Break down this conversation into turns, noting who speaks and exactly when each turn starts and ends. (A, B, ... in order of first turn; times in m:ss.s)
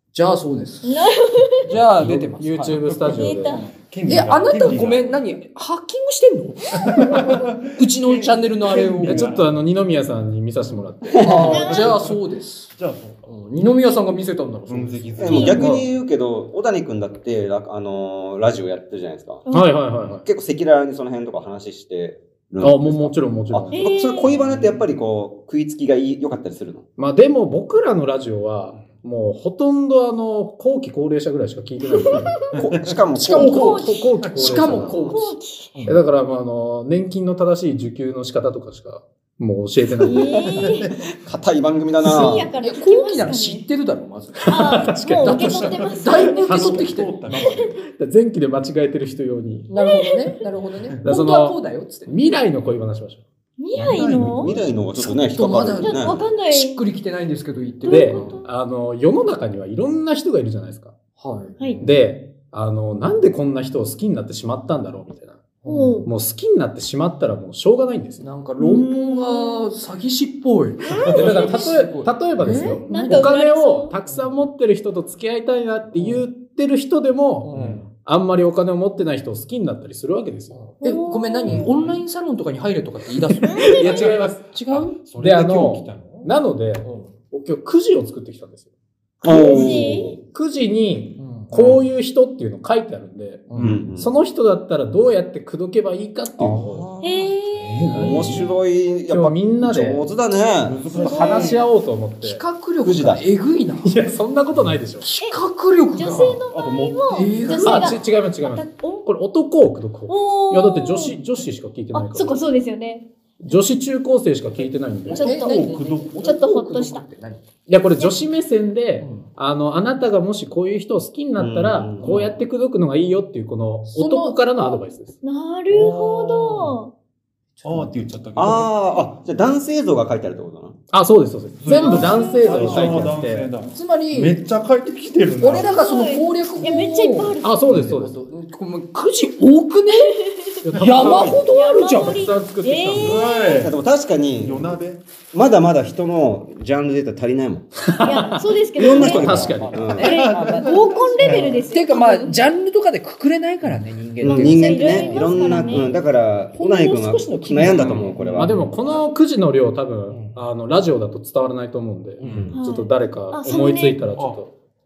0:00.1-0:01.0 A
0:00.8-0:01.7 B
0:01.6-0:02.8 A
0:01.6-0:05.2 C
0:02.0-0:03.6 D
0:03.1-0:03.7 B
0:04.0-0:09.3 A
0:06.8-0:09.6 C
0:09.0-0:11.7 D
0:11.2-0:11.5 E
0:11.2-0:12.7 A
0:11.4-0:12.2 C
0:11.4-0:11.9 B
0:12.7-0:13.3 C
0:13.2-0:15.3 A
0:14.7-0:15.7 C
0:15.2-0:19.4 E
0:15.3-0:15.7 B
0:15.3-0:15.8 D
0:19.5-0:19.7 B
0:19.5-0:20.2 D
0:20.2-0:26.8 E
0:22.6-0:23.8 D
0:23.7-0:24.3 B
0:24.2-0:24.8 C
0:27.0-0:32.3 D
0:32.5-0:33.0 C
0:32.6-0:33.8 E
0:33.1-0:36.0 A
0:33.3-0:35.1 D
0:34.2-0:35.0 C
0:35.0-0:35.8 B
0:35.8-0:40.6 D
0:40.0-0:40.9 B
0:40.6-0:42.5 E
0:42.0-0:43.6 B
0:42.6-0:47.4 A
0:44.4-0:45.6 D
0:44.5-0:46.8 B
0:46.3-0:47.8 C
0:46.4-0:46.9 D
0:47.3-0:47.7 B
0:47.9-0:49.7 D
0:49.7-0:52.2 A
0:49.8-0:50.4 B
0:51.0-0:53.2 D
0:53.6-0:54.6 B
0:53.7-0:54.7 C
0:54.3-0:56.2 E
0:55.0-0:58.4 A
0:55.8-0:56.8 B
0:57.8-0:58.5 B
0:57.8-1:00.9 D
1:01.2-1:01.9 A
1:01.6-1:01.8 B
1:01.8-1:05.4 D
1:05.6-1:06.0 A
1:05.7-1:06.1 B
1:06.0-1:08.3 D
1:08.2-1:13.3 A
1:08.6-1:09.6 B
1:11.0-1:11.6 B
1:11.1-1:20.6 D
1:12.9-1:13.9 B
1:15.9-1:16.2 A
1:17.4-1:17.8 A
1:17.5-1:17.8 C
1:20.5-1:25.0 A
1:20.8-1:21.7 B
1:21.5-1:22.0 C
1:23.4-1:24.4 D
1:23.4-1:24.2 B
1:23.8-1:24.1 C
1:24.7-1:26.3 C
1:25.1-1:28.6 D
1:26.8-1:27.1 A
1:29.2-1:30.2 E
1:29.2-1:30.1 B
1:29.3-1:30.0 C
1:30.2-1:36.8 D
1:31.2-1:31.5 A
1:31.5-1:31.8 C
1:33.5-1:33.8 A
1:33.5-1:33.8 C
1:33.6-1:34.1 E
1:36.4-1:36.8 E
1:36.5-1:37.2 A
1:37.0-1:38.1 B
1:37.5-1:38.5 C
1:37.9-1:41.0 E
1:37.9-1:38.5 A
1:39.1-1:40.1 D
1:40.6-1:41.6 C
1:41.0-1:42.4 D
1:41.1-1:41.6 A
1:42.2-1:44.1 A
1:42.8-1:43.2 E
1:43.8-1:45.1 D
1:44.5-1:44.8 C
1:45.0-1:46.4 A
1:45.9-1:49.0 B
1:46.2-1:47.6 C
1:47.1-1:48.0 A
1:47.6-1:52.4 D
1:50.1-1:51.2 B
1:51.9-1:53.1 B
1:53.4-1:55.4 D
1:55.1-1:57.4 A
1:55.1-1:56.4 C
1:55.1-1:57.0 B
1:57.7-2:05.2 D
1:59.0-1:59.3 A
2:01.4-2:02.1 E
2:02.0-2:02.4 C
2:03.8-2:04.8 A
2:05.2-2:06.9 B
2:05.7-2:06.8 C
2:07.6-2:07.9 A
2:07.6-2:09.0 C
2:08.4-2:10.8 E
2:10.9-2:13.5 D
2:11.6-2:15.7 C
2:11.7-2:12.9 B
2:12.4-2:13.0 A
2:13.6-2:14.4 A
2:15.4-2:20.2 A
2:15.5-2:17.6 B
2:17.4-2:18.2 D
2:19.9-2:20.6 B
2:20.6-2:23.2 D
2:20.8-2:22.2 A
2:21.0-2:21.4 E
2:21.5-2:23.7 B
2:23.0-2:23.8 C
2:23.5-2:24.8 E
2:24.4-2:25.0 C
2:25.3-2:27.7 E
2:27.8-2:30.0 D
2:28.0-2:32.4 B
2:28.8-2:30.1 E
2:29.0-2:36.0 A
2:30.0-2:31.6 C
2:34.2-2:38.9 E
2:34.2-2:35.9 B
2:36.5-2:38.3 A
2:37.6-2:38.7 C
2:38.3-2:44.5 D
2:40.1-2:40.3 A
2:42.2-2:42.6 C
2:42.3-2:42.6 E
2:42.5-2:44.0 B
2:44.2-2:44.4 C